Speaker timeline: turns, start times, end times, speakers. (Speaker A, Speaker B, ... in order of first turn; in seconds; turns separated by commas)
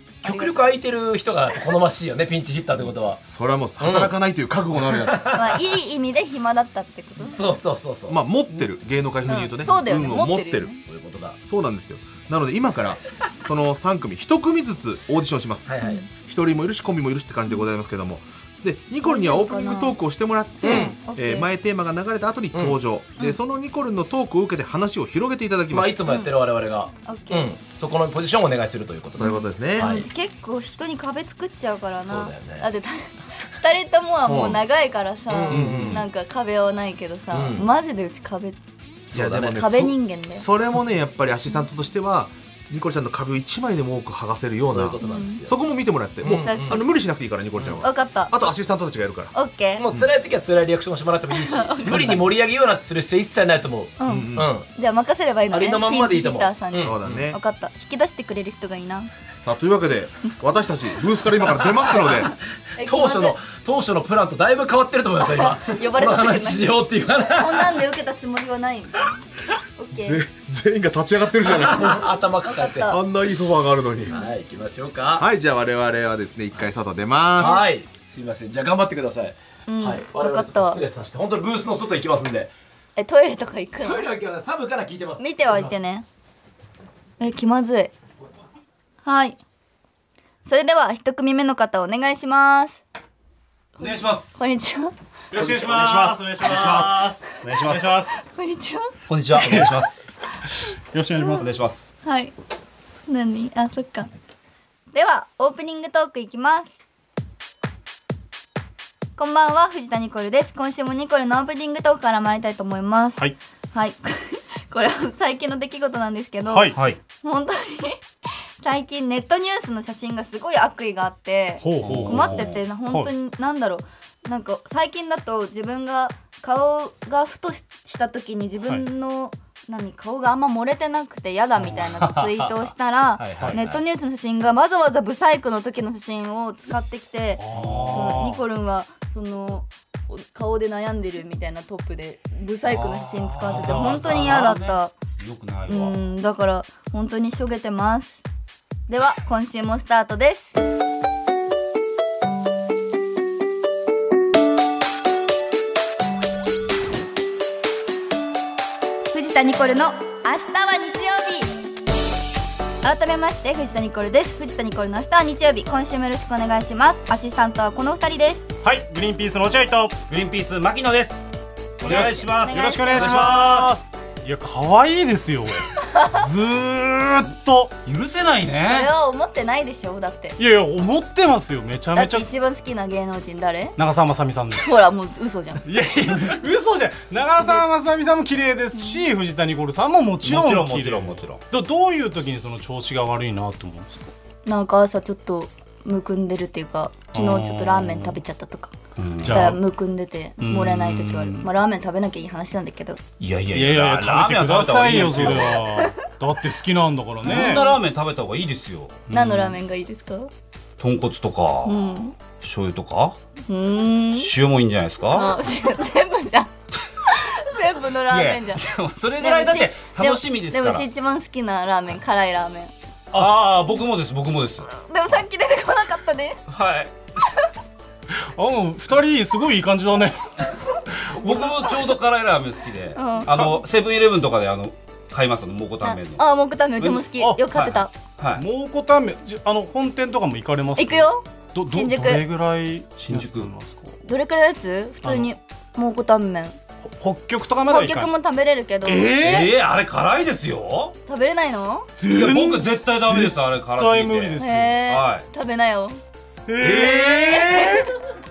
Speaker A: 0.2-3.2, Speaker B: 0.2-0.6, Speaker C: 3.2-5.3, Speaker A: 3.8-4.2, Speaker A: 4.7-5.6, Speaker B: 5.3-7.4, Speaker A: 7.2-8.2, Speaker C: 8.1-10.7, Speaker B: 9.3-10.8, Speaker A: 10.8-11.4, Speaker C: 11.4-26.0, Speaker A: 15.7-16.0, Speaker B: 15.8-16.1, Speaker B: 19.0-20.0, Speaker B: 20.6-21.5, Speaker A: 20.6-21.0, Speaker A: 25.7-30.1, Speaker B: 27.1-27.5, Speaker C: 29.1-29.9, Speaker B: 29.2-38.6, Speaker A: 32.0-32.7, Speaker C: 34.3-34.6, Speaker A: 35.3-36.0, Speaker C: 35.5-36.1, Speaker A: 37.3-37.7, Speaker A: 39.1-39.6, Speaker C: 39.1-49.3, Speaker B: 39.5-40.5, Speaker A: 44.6-45.6, Speaker B: 45.0-45.4, Speaker A: 46.2-46.8, Speaker B: 46.2-46.9, Speaker A: 47.6-47.8, Speaker B: 47.8-48.4, Speaker B: 49.3-49.9, Speaker A: 49.8-54.7, Speaker B: 51.3-52.2, Speaker C: 51.9-52.3, Speaker B: 54.0-59.1, Speaker C: 54.0-54.5, Speaker A: 55.5-57.3, Speaker C: 56.8-57.4, Speaker C: 59.4-62.3, Speaker A: 61.5-67.8, Speaker B: 62.8-63.4, Speaker B: 65.2-66.7, Speaker B: 67.3-69.1, Speaker B: 69.8-70.2, Speaker C: 69.9-72.1, Speaker A: 71.5-73.0, Speaker B: 72.4-73.0, Speaker C: 72.9-74.2, Speaker A: 74.1-75.3, Speaker C: 75.2-77.6, Speaker A: 77.3-82.5, Speaker B: 77.4-77.6, Speaker B: 79.7-80.8, Speaker B: 83.0-84.0, Speaker A: 83.8-85.7, Speaker B: 85.2-86.1, Speaker B: 87.2-87.9, Speaker B: 89.0-89.4, Speaker B: 90.5-92.8, Speaker D: 93.8-94.4, Speaker B: 94.4-94.9, Speaker E: 95.3-98.1, Speaker D: 95.3-98.1, Speaker B: 98.1-98.9, Speaker D: 99.1-100.1, Speaker E: 99.3-99.9, Speaker E: 100.9-101.5, Speaker D: 101.1-101.9, Speaker B: 102.0-102.3, Speaker B: 103.1-104.1, Speaker B: 104.9-106.8, Speaker B: 109.2-118.0, Speaker E: 116.5-116.8, Speaker D: 116.7-117.0, Speaker B: 118.6-144.9, Speaker E: 121.6-123.1, Speaker D: 121.8-122.6, Speaker D: 131.8-132.7, Speaker D: 133.2-133.6, Speaker A: 133.3-133.7, Speaker E: 137.4-138.4, Speaker D: 137.5-138.3, Speaker D: 142.7-146.0, Speaker E: 143.4-144.4, Speaker B: 145.7-148.2, Speaker B: 148.9-150.6, Speaker B: 159.1-161.6, Speaker B: 162.8-168.5, Speaker E: 168.6-170.0, Speaker D: 170.1-171.3, Speaker B: 171.8-173.6, Speaker D: 171.8-173.7, Speaker E: 171.8-175.6, Speaker B: 175.8-176.2, Speaker E: 176.2-177.8, Speaker D: 177.8-178.9, Speaker B: 178.7-180.4, Speaker E: 180.4-182.3, Speaker B: 181.9-183.8, Speaker E: 183.8-184.7, Speaker B: 184.5-185.6, Speaker E: 185.7-194.1, Speaker B: 187.4-187.6, Speaker B: 188.7-189.1, Speaker D: 190.2-191.4, Speaker B: 194.5-198.7, Speaker E: 197.1-198.2, Speaker D: 199.0-199.6, Speaker E: 199.2-199.6, Speaker B: 199.2-203.0, Speaker E: 200.4-201.5, Speaker D: 203.2-205.8, Speaker E: 203.5-207.8, Speaker B: 205.6-205.9, Speaker D: 207.2-209.1, Speaker B: 207.2-207.8, Speaker B: 209.1-210.3, Speaker E: 209.1-209.6, Speaker D: 210.8-213.2, Speaker B: 211.7-212.2, Speaker B: 213.5-214.3, Speaker D: 214.2-215.4, Speaker B: 215.1-216.5, Speaker B: 217.1-218.6, Speaker D: 218.1-220.9, Speaker B: 219.2-222.7, Speaker D: 223.1-224.7, Speaker B: 224.7-226.4, Speaker D: 226.5-226.9, Speaker E: 228.4-230.4, Speaker D: 231.1-236.3, Speaker B: 232.9-233.3, Speaker B: 235.8-237.9, Speaker D: 236.8-238.4, Speaker E: 237.2-237.6, Speaker E: 238.4-244.0, Speaker B: 240.8-242.2, Speaker D: 243.0-243.5, Speaker B: 244.1-246.6, Speaker E: 245.0-245.3, Speaker E: 246.8-248.1, Speaker B: 247.7-249.2, Speaker E: 248.8-249.5, Speaker D: 249.1-250.9, Speaker B: 251.1-251.9, Speaker E: 252.0-254.8, Speaker D: 252.1-255.2, Speaker B: 254.4-256.0, Speaker E: 256.5-257.9, Speaker D: 256.6-257.2, Speaker B: 257.1-257.9